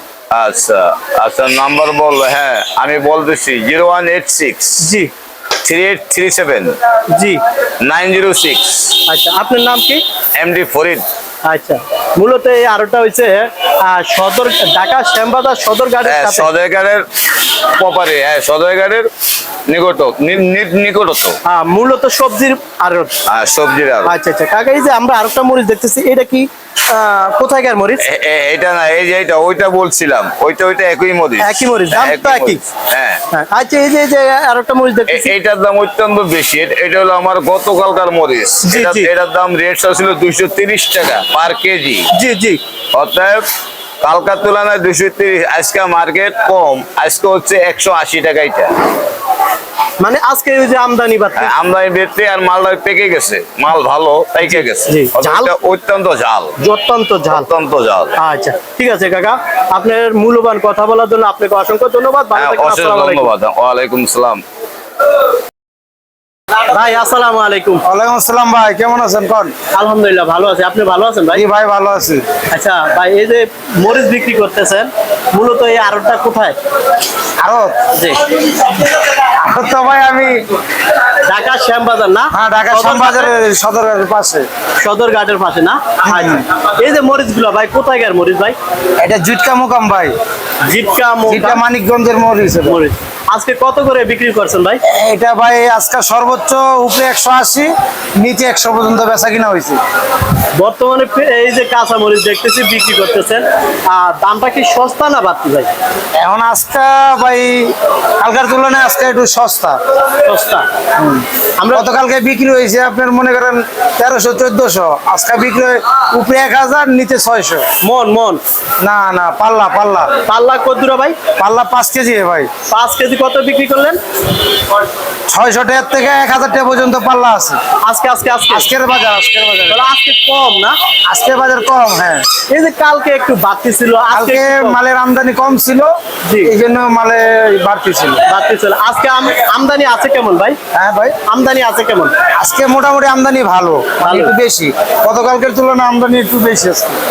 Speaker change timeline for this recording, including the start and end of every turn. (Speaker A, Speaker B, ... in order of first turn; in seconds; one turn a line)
Speaker A: 0.3-4.9
Speaker B: 4.8-5.1
Speaker A: 5.6-6.7
Speaker B: 7.1-7.4
Speaker A: 7.8-9.0
Speaker B: 9.1-10.0
Speaker A: 10.4-11.0
Speaker B: 11.4-16.5
Speaker A: 16.0-17.0
Speaker A: 17.8-19.1
Speaker A: 19.7-21.4
Speaker B: 21.4-23.1
Speaker A: 23.3-24.1
Speaker B: 24.1-28.0
Speaker A: 28.0-33.2
Speaker B: 31.4-32.6
Speaker B: 33.3-35.3
Speaker A: 35.1-42.1
Speaker B: 38.6-39.1
Speaker B: 42.1-42.6
Speaker A: 42.9-43.4
Speaker A: 44.0-48.7
Speaker B: 50.0-51.5
Speaker A: 51.4-56.5
Speaker B: 54.5-55.5
Speaker B: 56.6-57.5
Speaker A: 57.3-58.1
Speaker B: 58.2-63.3
Speaker A: 62.3-64.4
Speaker B: 66.7-67.8
Speaker C: 67.8-69.5
Speaker B: 69.7-71.4
Speaker C: 71.3-72.2
Speaker B: 72.5-76.5
Speaker C: 77.4-77.8
Speaker B: 77.9-78.2
Speaker C: 78.4-80.4
Speaker B: 81.2-83.3
Speaker C: 82.3-84.4
Speaker B: 84.8-88.5
Speaker C: 86.0-86.4
Speaker C: 89.0-90.1
Speaker B: 90.6-91.6
Speaker C: 91.3-92.8
Speaker B: 92.7-94.8
Speaker C: 94.9-99.8
Speaker B: 100.5-105.7
Speaker C: 106.2-109.8
Speaker B: 110.2-110.7
Speaker C: 111.0-117.6
Speaker B: 111.6-111.8
Speaker B: 117.8-118.4
Speaker C: 118.8-120.1
Speaker B: 120.2-121.2
Speaker C: 121.4-122.5
Speaker B: 122.7-124.0
Speaker C: 125.3-127.6
Speaker B: 127.8-128.7
Speaker C: 128.5-129.8
Speaker B: 129.7-130.7
Speaker C: 131.1-132.2
Speaker B: 132.5-134.8
Speaker C: 134.1-135.9
Speaker B: 136.2-136.5
Speaker C: 136.4-138.2
Speaker B: 138.3-140.6
Speaker C: 140.7-141.2
Speaker B: 141.2-142.1
Speaker C: 142.3-147.0
Speaker B: 144.0-144.3